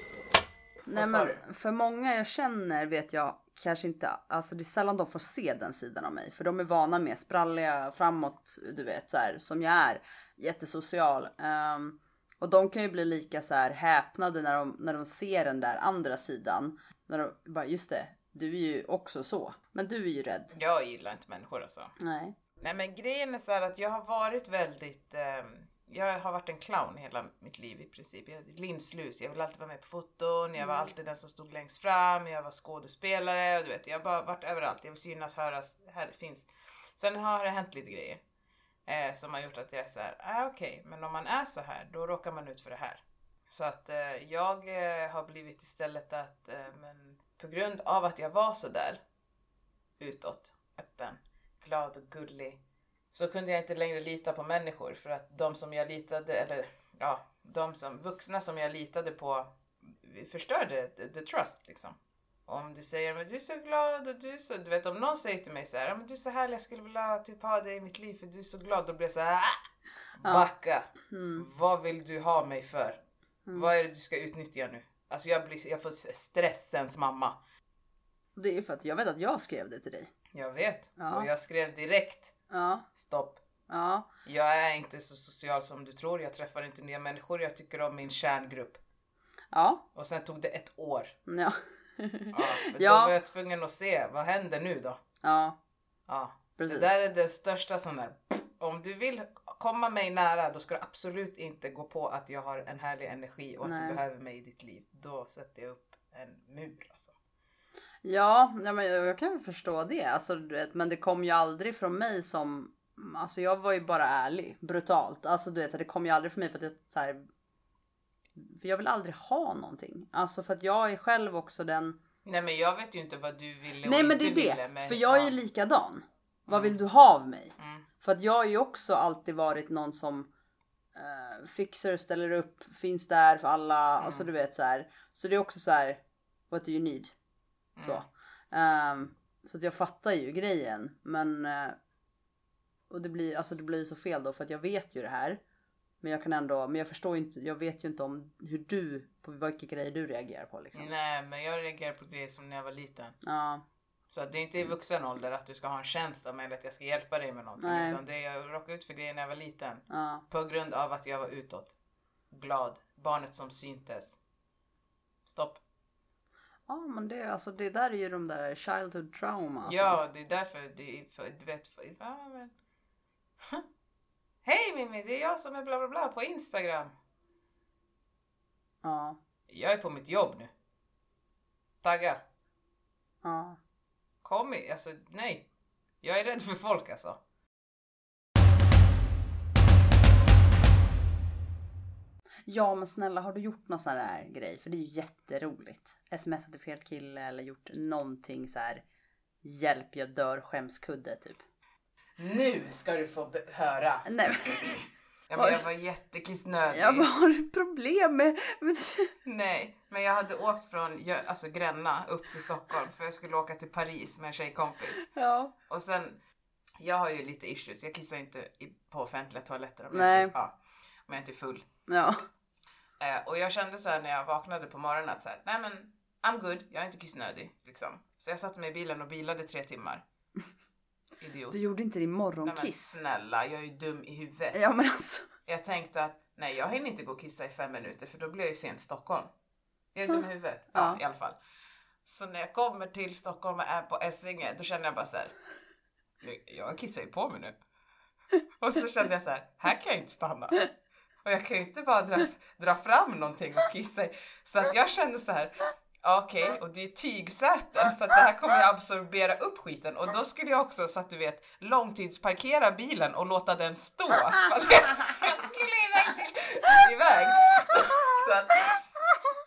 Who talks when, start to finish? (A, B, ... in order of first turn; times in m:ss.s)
0:00.9-0:20.5 A
0:00.9-0:01.4 B
0:20.5-0:21.9 B
0:22.0-0:22.4 A
0:22.6-0:38.2 B
0:30.6-0:30.9 A
0:38.9-0:49.0 B
0:50.0-0:52.6 B
0:53.1-1:09.6 B
1:10.2-1:13.0 B
1:11.1-1:11.5 A
1:13.5-1:17.4 B
1:18.4-1:20.1 A
1:20.3-1:22.3 B
1:21.0-1:21.3 A
1:22.5-1:22.9 A
1:22.9-1:23.4 B
1:23.7-1:24.1 A
1:24.2-1:28.8 B
1:29.5-1:29.8 A
1:30.0-1:31.1 B
1:31.3-1:33.1 A
1:32.3-1:35.0 B
1:35.2-1:35.6 A
1:36.1-1:47.2 B
1:36.6-1:36.9 A
1:43.6-1:44.0 A
1:48.0-1:57.2 A
1:58.4-2:02.0 A
2:02.2-2:05.4 B
2:03.8-2:10.3 A
2:06.5-2:06.8 B
2:07.6-2:07.9 B
2:11.0-2:17.1 A
2:14.0-2:14.3 B
2:17.8-2:18.0 B
2:17.8-2:21.8 A
2:22.9-2:25.4 A
2:26.0-2:30.9 A
2:30.7-2:33.2 B
2:33.2-2:33.6 A
2:34.1-2:41.8 B
2:37.6-2:38.0 A
2:39.9-2:40.2 A
2:42.3-2:44.2 B
2:45.3-2:45.6 B
2:46.7-2:50.0 A
2:49.7-2:52.5 B
2:54.4-2:56.9 B
2:58.8-2:59.2 A
2:59.5-3:00.5 B
3:01.8-3:02.2 B
3:03.2-3:03.6 A
3:04.2-3:05.5 B
3:06.0-3:07.2 B
3:12.5-3:18.8 A
3:19.4-3:21.4 A
3:22.2-3:24.1 B
3:24.1-3:24.8 A
3:25.3-3:27.1 B
3:25.4-3:25.6 A
3:26.7-3:29.1 A
3:29.2-3:35.1 B
3:35.1-3:35.5 A
3:35.7-3:36.2 B
3:36.8-3:40.6 B
3:39.9-3:40.3 A
3:41.1-3:41.7 B
3:41.9-3:42.2 A
3:43.0-3:50.0 B
3:51.2-3:51.7 B
3:51.5-3:53.0 A
3:52.4-3:54.6 B
3:54.5-3:55.3 A
3:55.5-3:59.3 B
3:59.9-4:01.4 B
4:00.7-4:01.0 A
4:02.0-4:05.3 B
4:06.2-4:07.6 B
4:08.6-4:10.7 B
4:11.2-4:28.8 B